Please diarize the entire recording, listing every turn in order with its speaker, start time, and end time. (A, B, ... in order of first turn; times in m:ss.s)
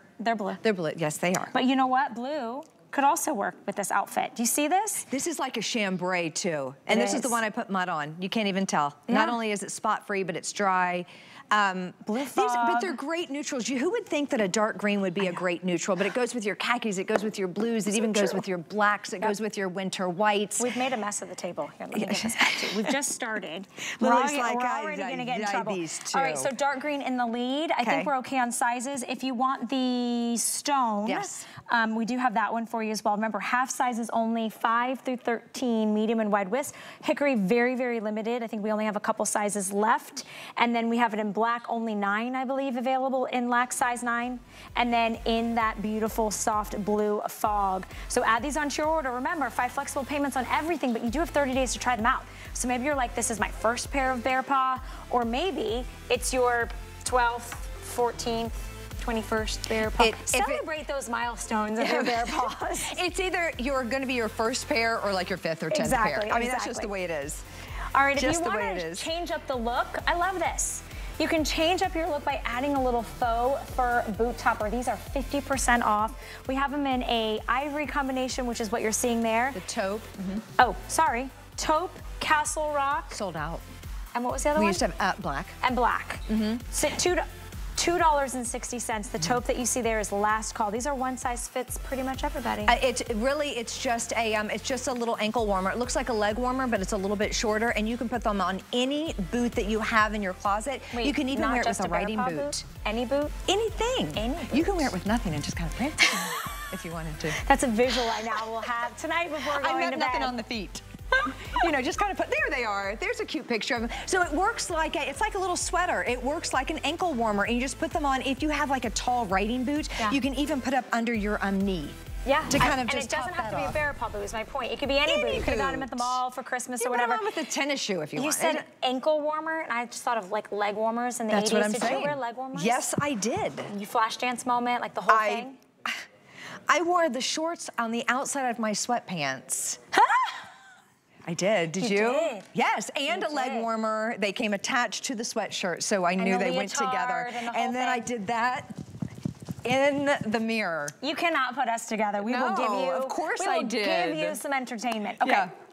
0:00.2-0:00.6 A
0:00.6-0:01.5 B
0:01.5-0:05.1 A
0:05.1-0:20.8 B
0:06.9-0:07.4 A
0:09.1-0:09.4 A
0:12.1-0:13.0 A
0:17.9-0:18.4 A
0:20.6-1:03.0 A
0:21.9-0:23.0 B
0:24.0-0:26.5 B
0:27.8-0:28.1 B
0:31.0-0:31.5 B
0:59.9-1:00.6 B
1:01.8-1:07.4 B
1:05.7-1:06.9 A
1:07.9-1:19.6 A
1:08.2-1:09.1 B
1:19.5-1:20.5 B
1:20.6-1:23.2 A
1:23.1-1:23.6 B
1:24.1-1:24.8 A
1:24.5-1:25.6 B
1:25.6-1:27.2 A
1:26.3-1:26.6 B
1:27.8-1:32.8 A
1:32.6-1:42.6 B
1:40.9-1:43.4 A
1:43.5-1:47.4 B
1:44.1-1:44.9 A
1:46.1-1:46.5 A
1:47.4-1:50.4 A
1:49.4-2:03.8 B
1:51.2-1:51.6 A
2:02.2-2:07.2 A
2:05.0-2:06.2 B
2:06.8-2:08.6 B
2:08.2-2:12.8 A
2:11.3-2:13.7 B
2:13.7-2:15.6 A
2:15.1-2:16.0 B
2:16.7-2:19.8 B
2:19.9-2:20.4 A
2:21.2-2:28.7 B
2:21.8-2:22.5 A
2:23.1-2:23.7 A
2:26.2-2:28.1 A
2:29.6-2:31.0 B
2:31.0-2:35.5 A
2:32.2-2:34.4 B
2:35.2-2:35.5 B